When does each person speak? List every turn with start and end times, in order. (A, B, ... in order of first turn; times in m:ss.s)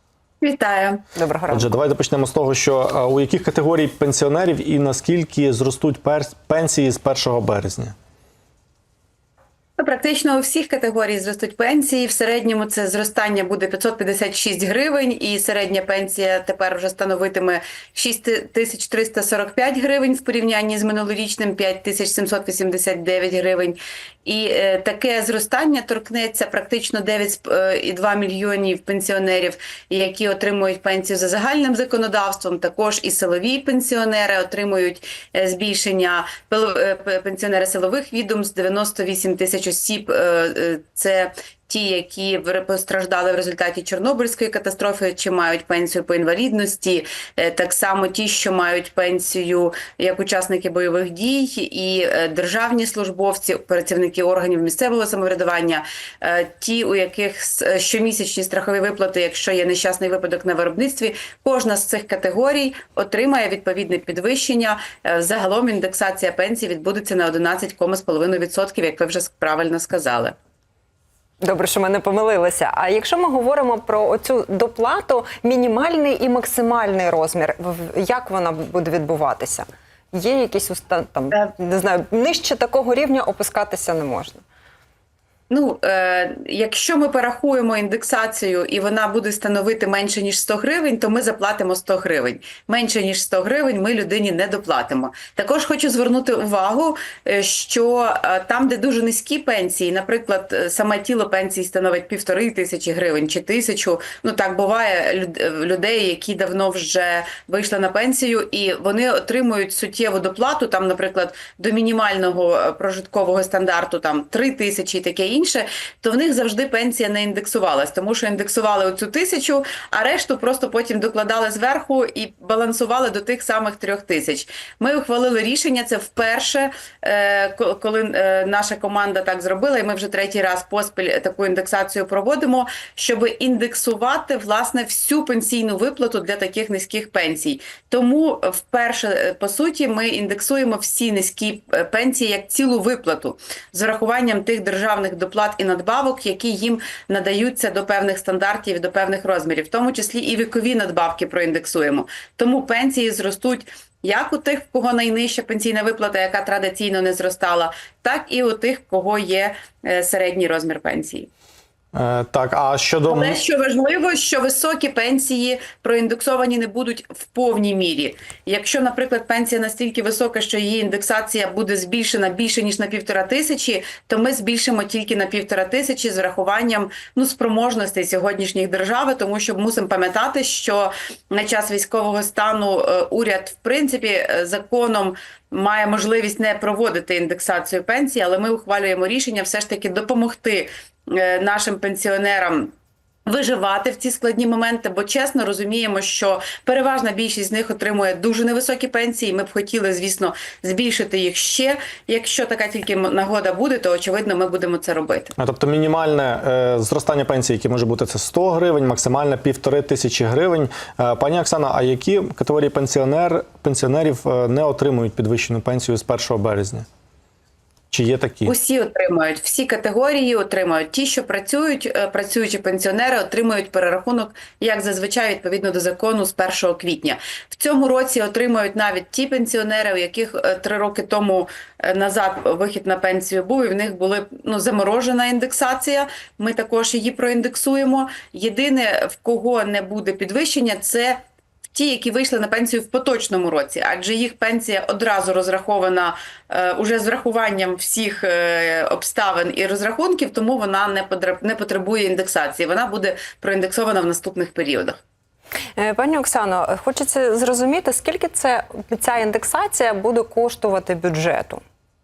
0:00.4-0:01.0 A
0:01.2-0:01.7 B
0:01.5-0:08.0 C
0:09.8-1:10.4 A
1:11.4-1:24.4 B
1:25.5-2:41.3 A
2:41.9-2:43.4 C
2:43.1-3:12.7 A
3:13.3-3:25.3 A
3:25.4-3:36.9 C
3:37.9-3:38.5 C
3:38.4-4:01.2 A
4:01.7-4:15.0 A
4:15.8-4:21.6 B